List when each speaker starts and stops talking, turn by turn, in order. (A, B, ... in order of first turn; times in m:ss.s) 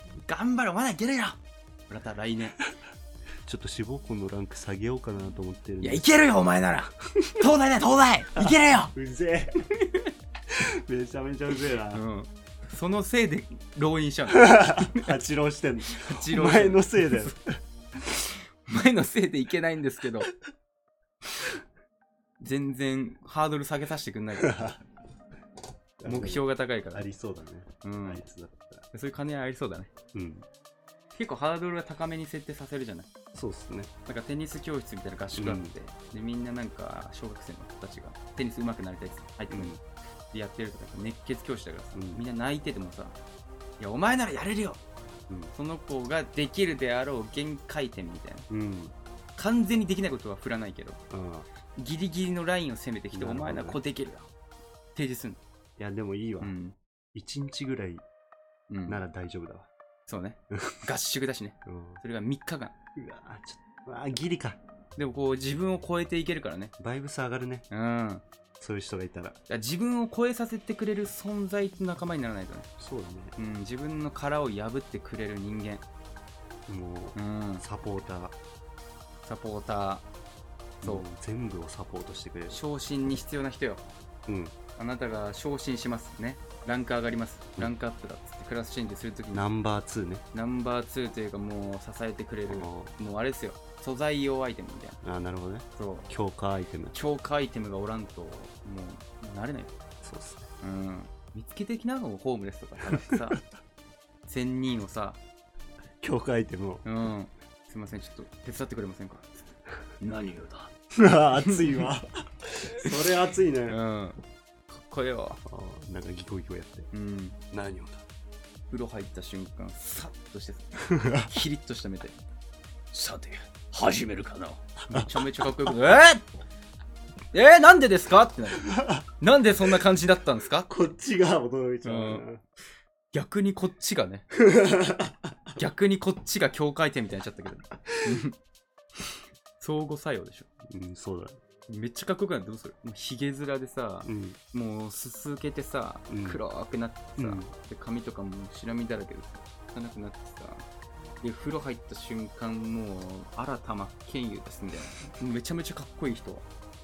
0:00.2-0:02.6 A
0:03.5-0:06.0 B
0:05.8-0:08.9 A
0:07.2-0:07.5 B
0:08.4-0:09.6 B
0:09.7-0:10.1 A
0:10.5-0:12.0 B
0:11.9-0:15.2 A
0:14.3-0:17.6 B
0:15.9-0:17.3 A
0:18.1-0:20.3 A
0:22.4-0:24.6 A
0:24.4-0:24.8 B
0:26.0-0:28.9 B
0:26.0-0:27.1 A
0:27.8-0:28.2 A
0:28.9-0:29.9 A
0:30.1-0:30.5 B
0:31.2-0:33.1 A
0:33.3-0:33.9 B
0:34.1-0:39.8 A
0:35.3-0:35.7 B
0:39.5-0:39.8 B
0:40.3-0:43.2 A
0:42.0-0:42.2 B
0:43.8-0:44.8 A
0:45.5-0:48.5 A
0:48.5-0:49.0 B
0:49.4-0:51.0 A
0:51.1-0:51.5 B
0:51.7-0:54.3 A
0:53.1-0:53.8 B
0:55.0-0:55.4 A
0:55.8-0:56.6 B
0:56.4-0:56.8 A
0:57.1-0:58.0 B
0:58.7-0:59.0 A
0:58.9-0:59.7 B
1:00.1-1:02.8 A
1:00.5-1:00.8 B
1:01.7-1:02.0 B
1:03.0-1:04.6 B
1:05.0-1:06.7 A
1:06.8-1:07.7 B
1:07.7-1:08.2 A
1:08.6-1:09.4 B
1:09.5-1:12.7 A
1:12.8-1:13.4 B
1:13.4-1:15.8 A
1:16.7-1:18.4 B
1:17.2-1:17.6 A
1:19.3-1:20.0 A
1:20.8-1:22.6 B
1:22.5-1:23.8 A
1:24.3-1:24.5 B
1:24.8-1:29.4 A
1:29.3-1:30.2 B
1:30.3-1:35.0 A
1:32.5-1:32.9 B
1:35.0-1:37.0 B
1:35.8-1:36.1 A
1:36.9-1:39.7 A
1:40.0-1:40.5 B
1:40.6-1:43.4 A
1:42.9-1:43.4 B
1:44.3-1:45.2 A
1:46.0-1:46.8 B
1:46.8-1:49.4 A
1:50.0-1:50.7 A
1:51.0-1:53.8 B
1:51.4-1:51.9 A
1:53.7-1:55.4 A
1:55.4-1:56.9 B
1:56.9-1:57.4 A
1:57.5-1:58.0 B
1:58.7-2:02.2 A
2:00.9-2:01.3 B
2:02.9-2:06.2 A
2:04.9-2:05.2 B
2:07.3-2:10.7 A
2:08.6-2:09.0 B
2:10.7-2:12.4 B
2:11.8-2:12.2 A
2:13.1-2:14.3 A
2:14.3-2:15.4 B
2:15.6-2:18.4 A
2:17.9-2:18.2 B
2:19.6-2:20.5 A
2:20.7-2:21.4 B
2:21.7-2:30.7 A
2:24.1-2:24.4 B
2:26.1-2:26.4 B
2:27.2-2:27.5 B
2:31.2-2:36.5 A